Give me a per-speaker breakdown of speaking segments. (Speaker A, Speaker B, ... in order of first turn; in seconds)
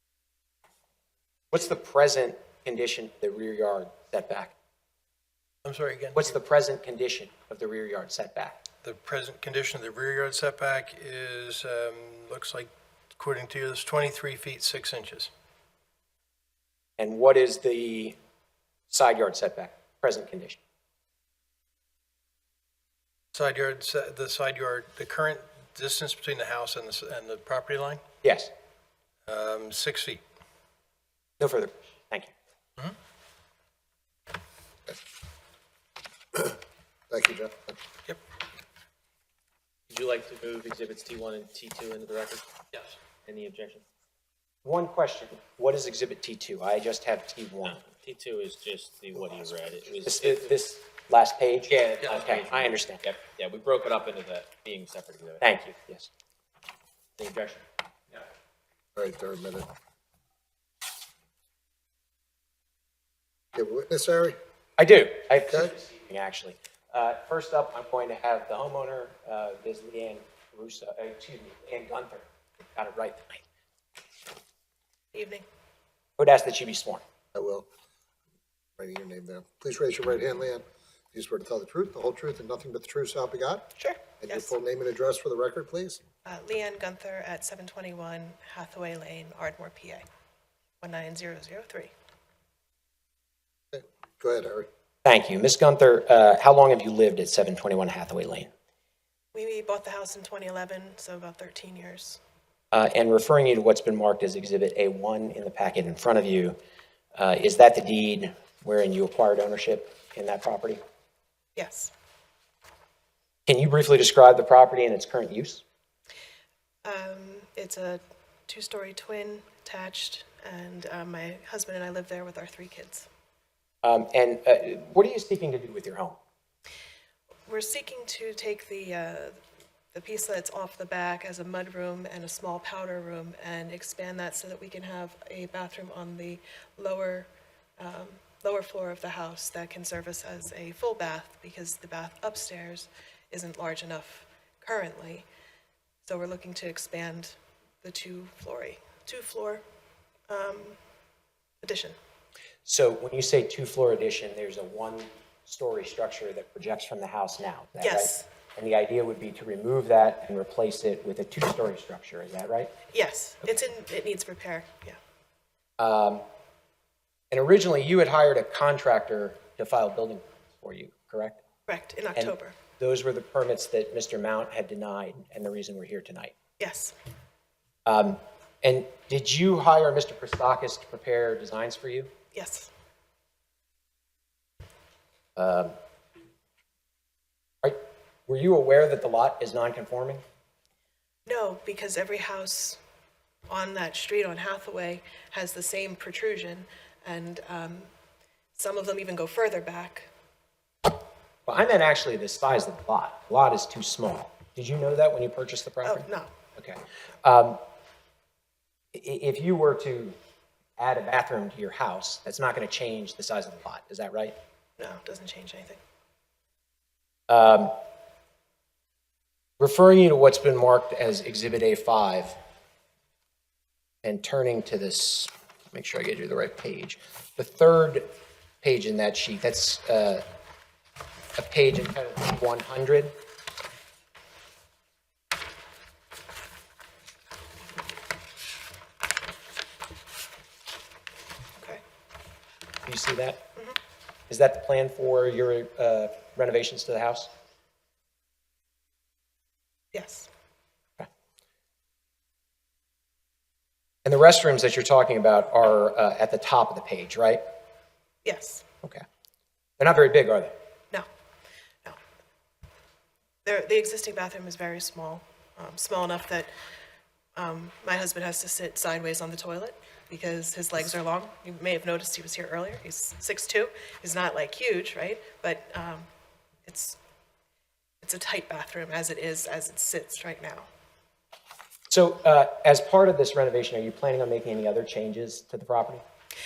Speaker A: 1.5-4.5, 6.1-8.6, 17.0-18.2, 18.9-20.6, 28.2-28.5, 31.4-32.3, 44.6-47.8, 50.0-53.0, 55.4-56.1, 64.8-73.4, 76.2-77.0, 95.0-98.5, 102.7-106.5, 107.2-110.8, 113.5-115.6, 123.8-126.2, 152.7-162.7, 165.8-166.2, 167.3-171.4, 172.1-176.3, 177.8-182.1, 185.3-185.7, 187.6-190.2, 201.5-206.1, 206.6-207.6, 208.9-210.2, 210.8-214.3, 217.3-217.7, 219.6-222.3, 224.0-228.0, 228.6-230.2, 231.3-233.1, 242.8-243.4, 244.3-247.3, 254.0-257.4, 259.8-260.5, 281.9-286.0
Speaker B: 5.6-6.3, 8.8-15.3, 23.3-28.0, 29.3-30.2
Speaker C: 37.1-37.8, 59.0-59.7, 63.5-64.3, 77.3-77.7, 78.8-83.7, 84.2-86.0, 93.7-94.7
Speaker D: 39.9-42.4, 43.2-43.8, 47.9-50.5, 51.7-55.4, 57.2-57.6
Speaker E: 75.1-75.4, 83.8-84.5, 86.2-90.0, 90.8-91.9, 99.3-102.2, 111.5-111.9, 116.8-123.1, 127.5-129.4, 129.9-145.3, 146.0-149.6, 150.3-150.8, 151.6-152.0, 157.8-158.2, 162.9-165.0, 171.7-172.6, 176.6-176.9, 182.3-182.7, 191.2-192.8, 193.5-197.9, 198.6-200.1, 205.8-206.3, 214.8-215.8, 249.9-250.3, 258.2-258.6, 263.4-266.5, 267.4-276.1, 276.6-277.0, 278.0-280.7